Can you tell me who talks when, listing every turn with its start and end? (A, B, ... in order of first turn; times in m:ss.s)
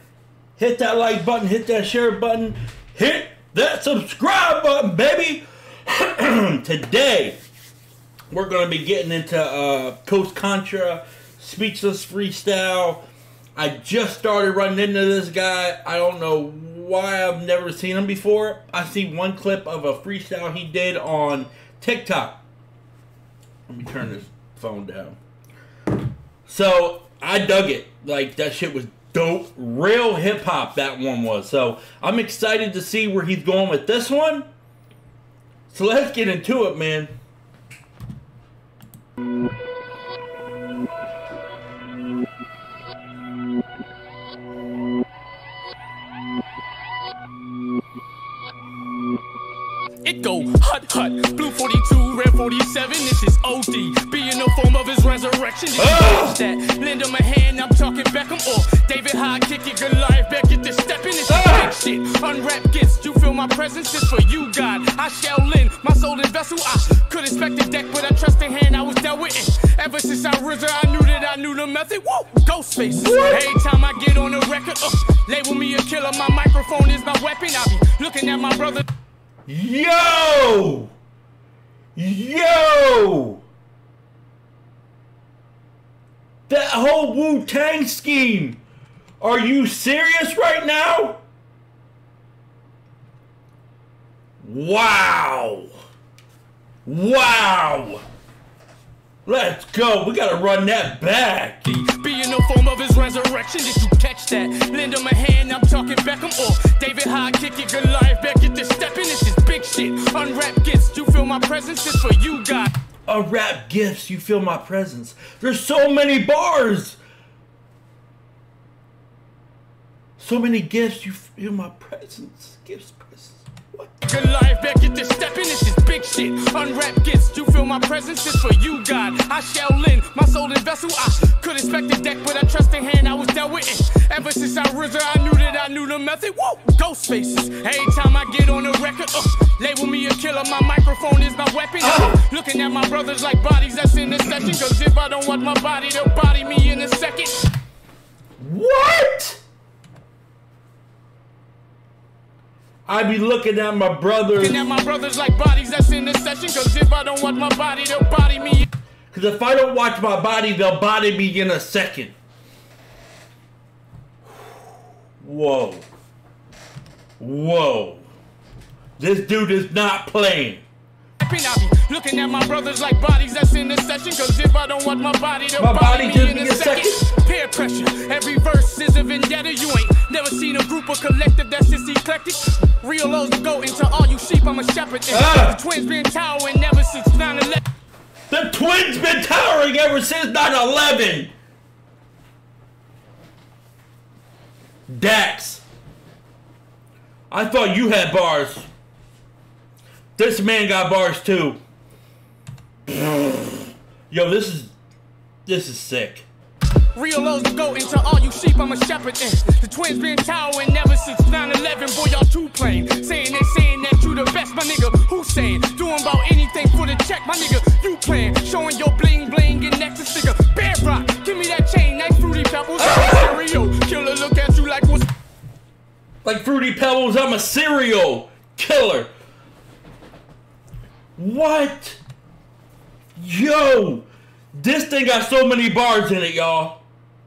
0:00.6-0:07.4 A
0:08.3-0:22.4 A
0:23.7-0:25.2 A
0:26.5-0:34.5 A
0:35.7-0:37.1 A
0:50.0-1:18.8 B
0:55.8-0:56.4 A
1:01.3-1:01.7 A
1:12.9-1:13.6 A
1:19.5-1:20.9 A
1:22.0-1:23.4 A
1:26.5-1:28.6 A
1:29.2-1:31.2 A
1:34.4-1:35.7 A
1:36.8-1:38.0 A
1:39.2-1:41.7 A
1:41.6-1:52.7 B
1:53.1-1:57.0 A
2:00.2-2:03.9 A
2:04.0-2:27.4 B
2:21.8-2:22.2 A
2:28.4-2:29.4 A
2:32.9-2:34.6 A
2:34.4-2:38.7 B
2:39.1-2:42.2 A
2:45.2-2:45.9 A
2:47.2-2:48.1 A
2:49.0-2:50.6 A
2:51.2-3:07.6 B
2:55.6-2:57.0 A
3:05.1-3:05.6 A
3:08.3-3:11.3 A
3:14.9-3:15.6 A
3:17.3-3:18.7 A
3:20.2-3:21.6 A
3:22.9-3:24.7 A
3:25.5-3:26.3 A
3:26.9-3:45.1 B
3:42.8-3:43.4 A
3:46.2-3:49.1 A
3:51.2-3:52.0 A
3:53.2-3:56.8 A